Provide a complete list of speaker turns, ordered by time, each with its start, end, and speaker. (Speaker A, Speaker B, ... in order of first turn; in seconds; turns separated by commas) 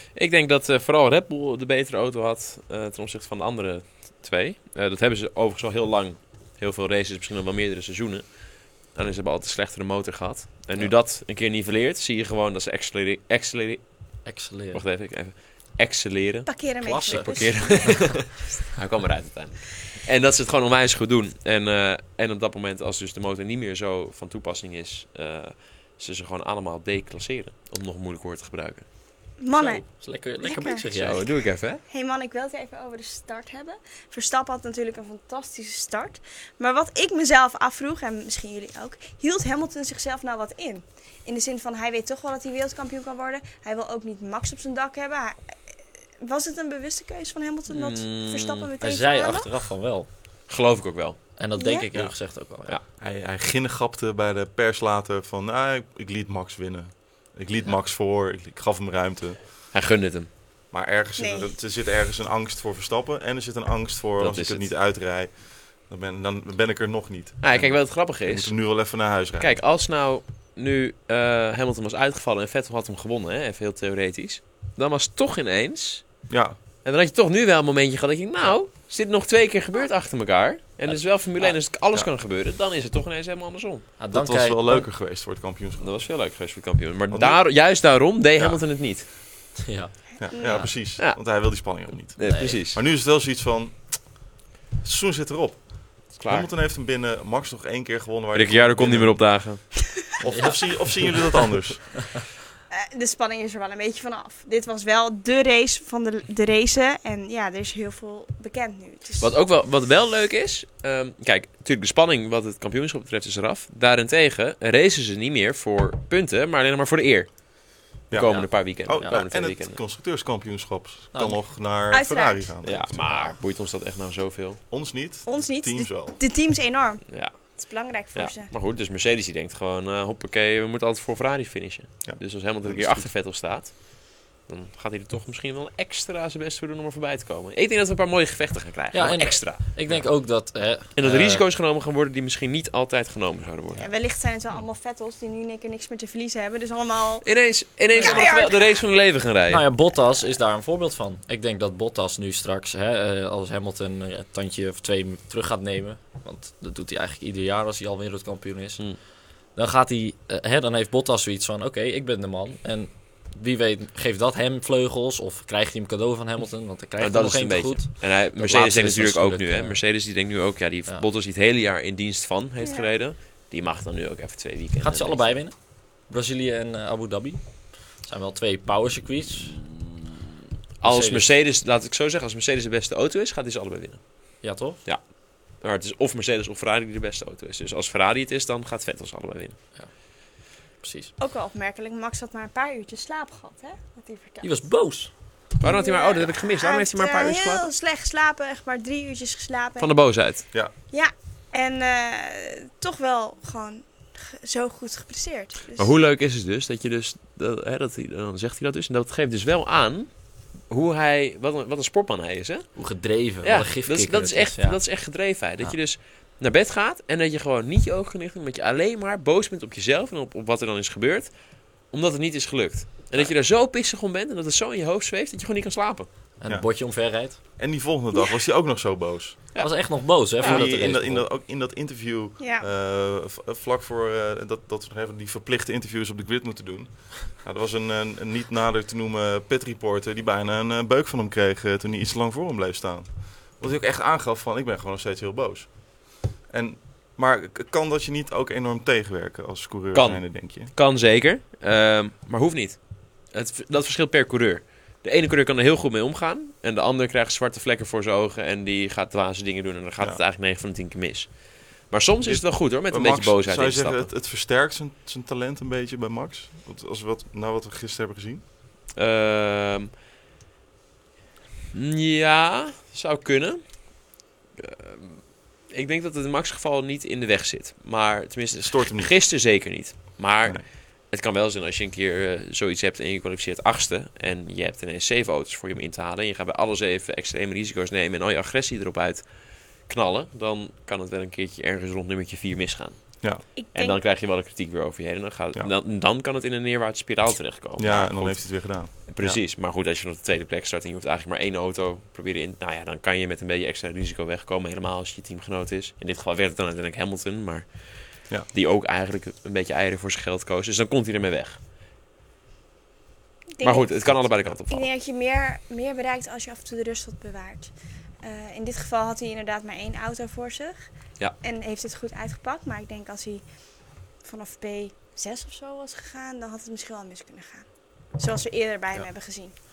Speaker A: 0.1-13.8, Speaker B: 14.2-14.8, Speaker A: 14.7-28.9, Speaker C: 16.4-18.4, Speaker B: 16.8-18.1, Speaker C: 29.4-29.9, Speaker B: 29.5-31.2, Speaker C: 30.4-31.1, Speaker A: 31.0-31.8, Speaker C: 31.9-45.4, Speaker C: 46.2-49.5, Speaker A: 47.7-48.7, Speaker B: 48.8-50.1, Speaker A: 50.5-51.2, Speaker B: 51.4-52.8, Speaker C: 51.5-51.9, Speaker D: 52.9-59.4, Speaker A: 59.7-60.3, Speaker D: 60.7-69.6, Speaker C: 61.2-61.5, Speaker A: 64.2-64.7, Speaker A: 67.4-76.2, Speaker D: 76.3-76.6, Speaker A: 76.8-83.9, Speaker B: 80.9-81.5, Speaker B: 84.0-84.9, Speaker D: 84.1-86.0, Speaker A: 85.8-89.1, Speaker D: 87.1-87.4, Speaker B: 89.6-90.7, Speaker D: 90.2-99.6, Speaker C: 90.3-90.7, Speaker A: 91.0-92.8, Speaker B: 92.2-92.6, Speaker A: 96.1-96.5, Speaker A: 98.3-99.7, Speaker D: 100.2-102.0, Speaker B: 100.3-101.0, Speaker C: 102.7-109.3, Speaker A: 109.2-119.8, Speaker D: 118.1-123.2, Speaker B: 118.2-119.2, Speaker B: 121.1-121.4, Speaker C: 121.9-122.5, Speaker A: 122.6-124.6, Speaker B: 123.0-123.3, Speaker D: 124.7-126.2, Speaker C: 125.2-128.5, Speaker A: 127.1-127.6, Speaker A: 128.1-139.6, Speaker D: 132.0-133.1, Speaker B: 138.9-141.4, Speaker A: 141.0-143.8, Speaker C: 143.8-147.2, Speaker A: 147.2-149.6, Speaker C: 147.9-148.8, Speaker B: 149.5-159.0, Speaker B: 159.5-169.8, Speaker A: 167.0-175.4, Speaker C: 172.6-172.9, Speaker B: 174.8-179.6, Speaker A: 180.8-189.6, Speaker B: 180.8-181.3, Speaker B: 184.4-184.8, Speaker B: 190.8-191.1, Speaker C: 191.2-194.5, Speaker B: 194.4-195.1, Speaker A: 195.6-197.7, Speaker C: 195.6-200.4, Speaker A: 199.8-200.5, Speaker C: 200.9-205.9, Speaker A: 205.8-212.8, Speaker B: 212.8-214.8, Speaker A: 213.4-226.1, Speaker B: 226.4-227.4, Speaker D: 226.5-226.7, Speaker D: 227.3-229.4, Speaker A: 229.5-229.9, Speaker B: 229.6-231.3, Speaker A: 230.4-230.9, Speaker D: 230.4-250.7, Speaker C: 232.4-232.7, Speaker A: 249.9-264.1, Speaker D: 262.2-268.4, Speaker A: 268.9-269.9, Speaker A: 271.7-289.2, Speaker D: 278.6-279.1, Speaker A: 289.8-311.6, Speaker C: 293.6-294.0, Speaker D: 297.8-299.4, Speaker C: 313.5-320.9, Speaker A: 313.6-314.9, Speaker C: 321.4-323.4, Speaker C: 324.2-329.5